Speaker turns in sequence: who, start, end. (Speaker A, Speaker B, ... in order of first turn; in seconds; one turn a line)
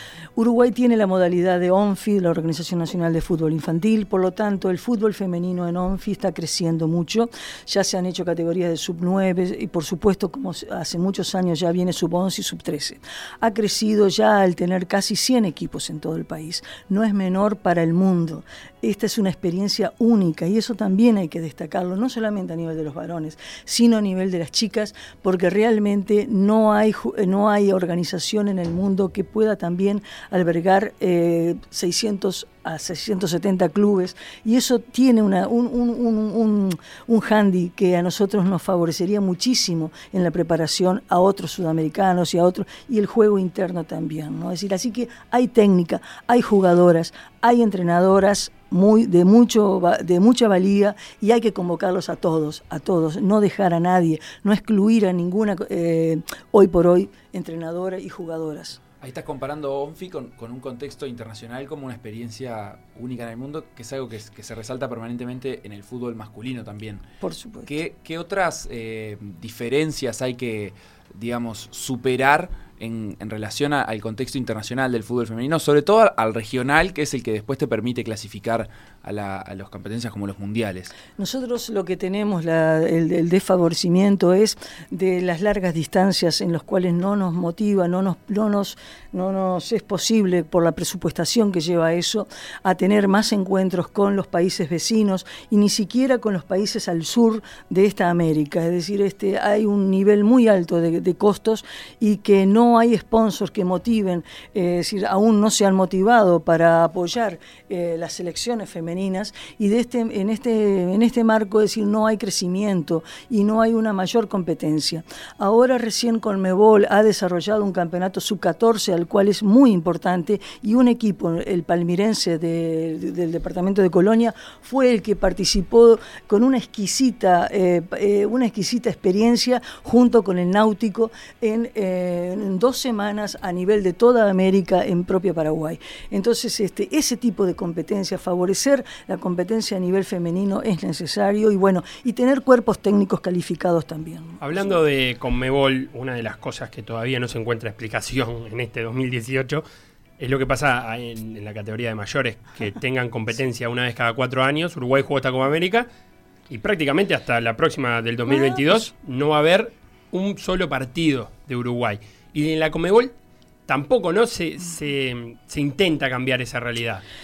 Speaker A: 0.3-58.8
Speaker B: 59.0-67.0
Speaker A: 67.2-67.8
Speaker B: 67.7-80.9
Speaker A: 81.2-144.4
Speaker C: 144.4-149.6
Speaker C: 150.2-155.9
Speaker C: 156.5-163.1
Speaker A: 158.3-158.9
Speaker C: 163.7-167.0